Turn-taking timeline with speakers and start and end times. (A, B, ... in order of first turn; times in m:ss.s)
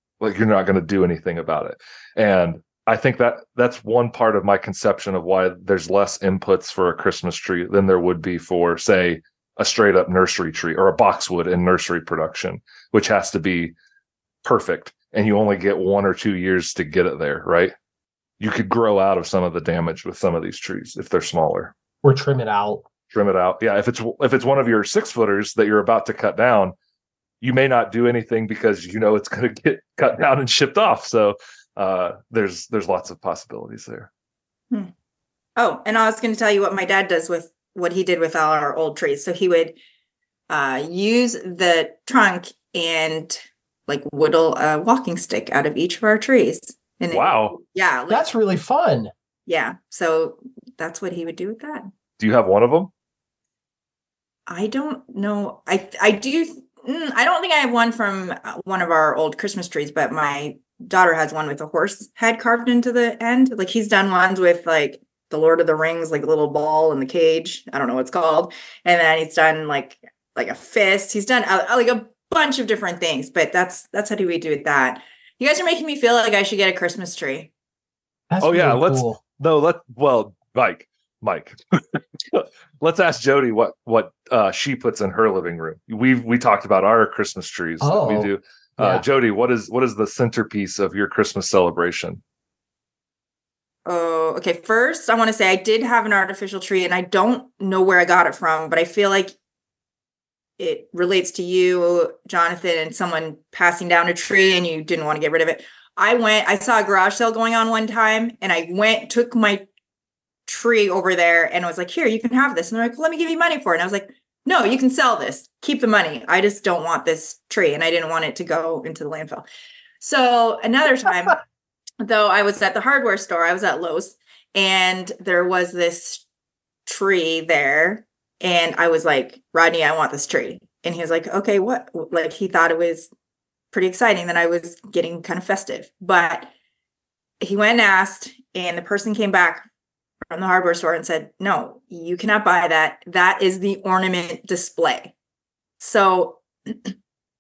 0:00.2-0:13.7 A
0:14.4-0:17.7 A
0:18.4-0:21.7 A
0:22.0-0:22.9 B
0:23.1-0:26.7 A
0:27.4-0:34.1 A
0:35.6-0:39.8 C
0:40.5-0:48.3 C
0:47.1-0:47.6 A
0:48.1-0:49.1 B
0:49.5-0:51.9 C
0:52.2-0:52.9 A
0:54.5-1:17.5 C
1:18.3-1:19.2 B
1:18.4-1:32.2 A
1:27.8-1:29.0 B
1:33.9-1:39.4 C
1:40.6-1:49.7 C
1:50.5-1:59.4 C
2:00.0-2:01.4 C
2:02.0-2:06.2 C
2:06.9-2:13.1 C
2:13.7-2:16.5 C
2:17.4-2:19.6 C
2:20.3-2:25.1 C
2:25.8-2:26.9 C